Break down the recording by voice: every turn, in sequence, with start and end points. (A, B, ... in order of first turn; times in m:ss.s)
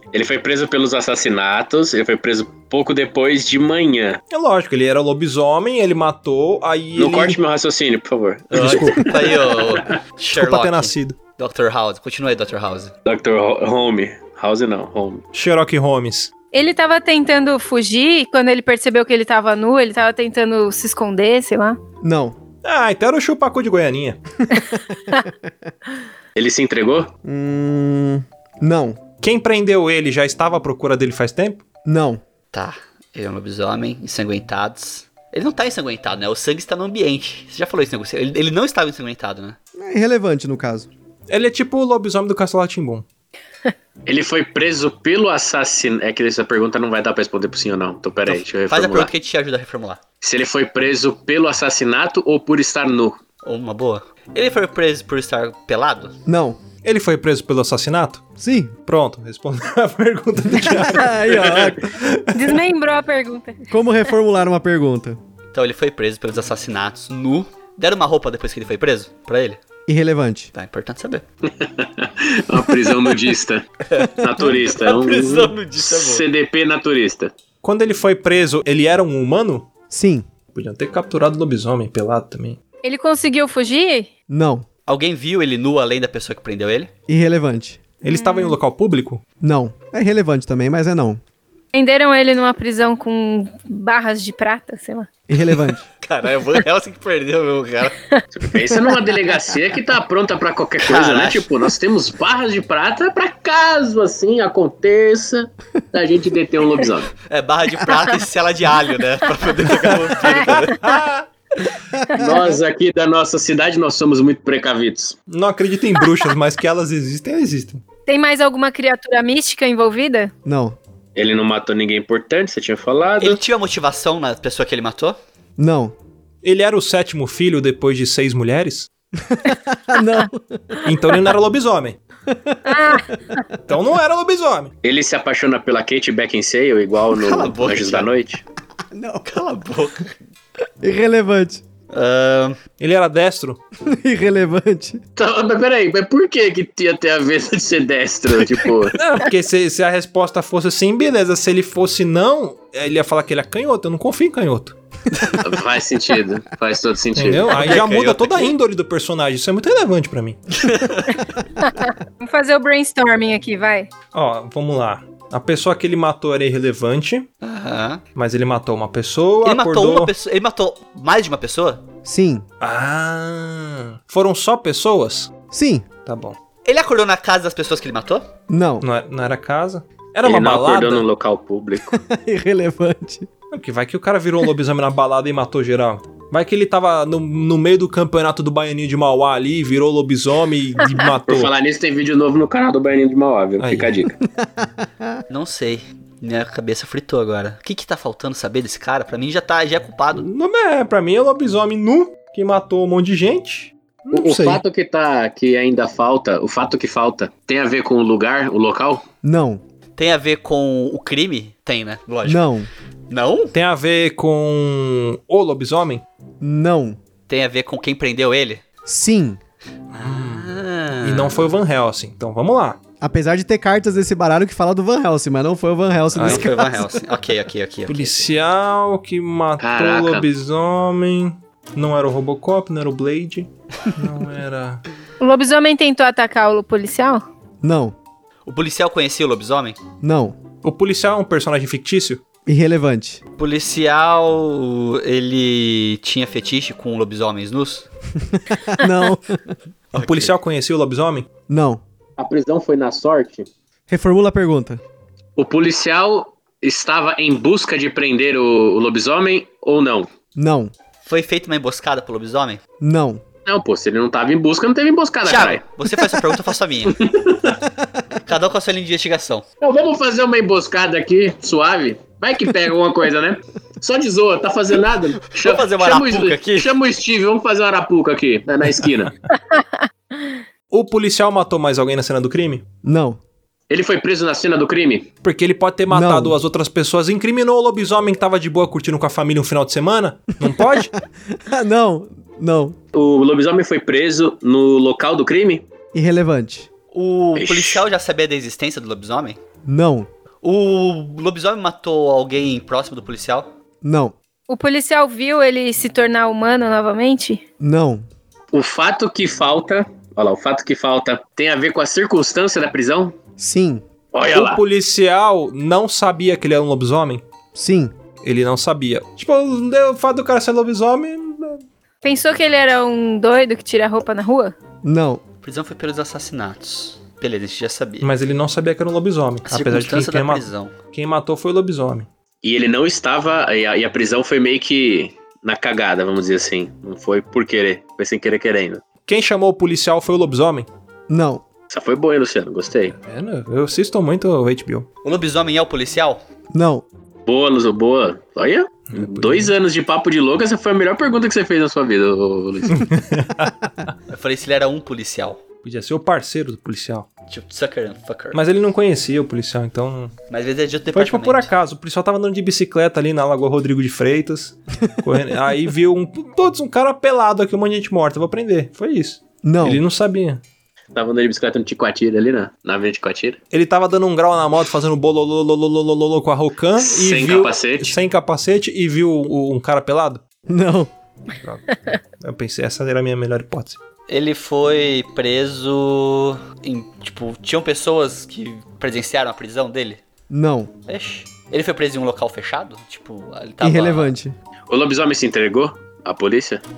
0:00.1-0:04.2 A
0:04.3-0:07.4 B
0:07.0-0:10.0 A
0:08.5-0:12.9 C
0:08.5-0:09.4 B
0:10.3-0:11.2 B
0:13.0-0:15.2 A
0:15.3-0:16.3 B
0:16.5-0:21.8 D
0:22.0-0:22.4 E
0:22.6-0:24.2 B
0:24.6-0:25.4 E
0:26.3-0:27.1 A
0:27.2-0:29.0 E
0:29.2-0:31.6 B
0:31.8-0:32.2 E
0:32.5-0:39.6 C
0:39.8-0:40.9 E
0:41.3-0:43.0 B
0:44.0-0:49.1 A
0:48.3-0:50.0 C
0:50.2-0:53.2 A
0:53.4-0:56.2 C
0:56.2-0:56.6 E
0:56.8-0:58.2 B
0:58.4-0:58.8 E
0:58.9-1:01.8 B
1:00.5-1:02.1 E
1:02.3-1:03.6 D
1:03.7-1:05.2 E
1:05.5-1:09.6 C
1:09.9-1:10.5 E
1:10.5-1:11.2 C
1:11.5-1:13.6 A
1:13.9-1:16.2 C
1:14.2-1:17.3 A
1:17.6-1:19.7 B
1:19.9-1:20.2 E
1:20.5-1:22.6 B
1:22.8-1:24.1 D
1:24.3-1:24.6 E
1:24.9-1:26.9 C
1:27.1-1:27.8 E
1:28.0-1:29.2 B
1:28.1-1:28.6 D
1:29.4-1:31.2 E
1:31.7-1:35.1 D
1:35.3-1:35.9 E
1:36.0-1:38.0 C
1:38.3-1:47.1 A
1:40.8-1:41.5 C
1:47.2-1:50.9 C
1:50.6-1:51.2 B
1:52.1-1:55.2 A
1:55.3-1:57.8 B
1:58.1-2:00.3 D
2:00.4-2:00.8 E
2:01.1-2:03.4 A
2:03.2-2:05.2 C
2:05.6-2:05.9 E
2:06.4-2:08.9 B
2:09.3-2:10.9 E
2:10.8-2:12.0 B
2:12.3-2:13.0 E
2:12.6-2:13.4 D
2:13.7-2:14.7 B
2:14.8-2:18.4 A
2:17.1-2:18.1 C
2:18.9-2:19.2 E
2:19.2-2:20.2 C
2:20.8-2:21.6 E
2:21.9-2:22.6 C
2:22.8-2:23.6 B
2:23.8-2:25.0 E
2:25.2-2:29.0 A
2:28.8-2:34.8 B
2:35.4-2:37.8 A
2:37.1-2:40.5 B
2:37.5-2:38.5 C
2:40.6-2:41.2 C
2:41.6-2:43.9 D
2:44.1-2:47.3 B
2:47.4-2:48.0 C
2:48.2-2:50.1 B
2:49.4-2:51.8 C
2:52.0-2:52.4 E
2:52.6-2:55.3 B
2:55.5-2:55.8 E
2:56.0-2:56.4 B
2:56.6-2:58.2 C
2:58.5-2:58.8 E
2:58.8-3:01.0 B
3:00.2-3:02.0 A
3:01.9-3:03.3 E
3:03.5-3:11.5 B
3:11.3-3:14.1 A
3:13.6-3:14.0 B
3:14.2-3:15.2 E
3:15.3-3:20.2 C
3:20.1-3:24.6 B
3:24.1-3:29.0 A
3:29.2-3:29.6 E
3:30.0-3:32.4 C
3:32.2-3:32.7 E
3:33.1-3:33.5 C
3:33.5-3:36.0 B
3:36.4-3:37.0 E
3:37.3-3:38.6 C
3:38.8-3:39.4 E
3:39.9-3:41.5 C
3:39.9-3:42.8 B
3:43.0-3:46.8 E
3:46.1-3:46.7 B
3:46.2-3:48.2 C
3:47.9-3:54.8 B
3:49.6-3:50.2 A
3:55.2-3:57.2 D
3:57.6-3:57.9 E
3:58.4-3:59.8 C
4:00.0-4:00.4 E
4:00.6-4:02.2 B
4:02.5-4:03.2 E
4:03.4-4:07.9 C
4:08.2-4:09.6 E
4:09.9-4:10.3 C
4:09.9-4:11.3 B
4:11.5-4:11.8 E
4:12.2-4:13.5 A
4:13.9-4:14.8 E
4:15.4-4:20.1 A
4:20.3-4:20.7 E
4:21.0-4:22.6 C
4:22.8-4:23.2 E
4:23.4-4:25.6 A
4:25.2-4:27.0 C
4:26.9-4:27.6 A
4:28.2-4:29.4 C
4:29.6-4:39.1 A
4:35.3-4:36.7 C
4:40.7-4:42.6 B
4:42.8-4:43.2 E
4:43.7-4:45.1 A
4:45.2-4:50.9 B
4:45.9-4:46.4 E
4:51.3-4:52.8 E
4:52.9-4:55.6 A
4:55.9-4:56.7 E
4:56.9-4:59.4 C
4:57.3-4:57.8 A
4:59.7-5:00.1 E
5:00.4-5:03.5 C
5:03.8-5:04.1 E
5:04.5-5:07.4 D
5:07.6-5:08.0 E
5:08.5-5:13.1 A
5:13.4-5:13.8 E
5:14.1-5:14.6 A
5:14.3-5:17.2 B
5:17.5-5:17.9 E
5:18.2-5:21.6 B
5:22.0-5:24.5 D
5:24.8-5:25.2 E
5:25.4-5:28.1 C
5:28.0-5:32.1 B
5:29.4-5:30.7 C
5:32.4-5:38.8 A
5:39.1-5:40.7 B
5:41.1-5:41.4 E
5:41.7-5:43.0 A
5:43.0-5:44.9 B
5:45.0-5:46.2 C
5:46.5-5:46.8 E
5:47.2-5:52.9 A
5:48.9-5:49.5 B
5:52.7-5:53.9 B
5:54.1-5:55.4 C
5:55.6-5:57.1 B
5:57.3-5:58.4 C
5:58.3-6:00.1 B
6:00.3-6:01.5 C
6:00.9-6:10.4 B
6:09.4-6:09.8 E
6:10.9-6:13.4 A
6:13.5-6:20.2 B
6:16.8-6:17.9 A
6:20.5-6:20.9 E
6:21.3-6:23.8 B
6:24.1-6:30.0 C
6:30.3-6:30.7 E
6:30.9-6:34.1 C
6:33.6-6:34.3 E
6:34.7-6:36.6 A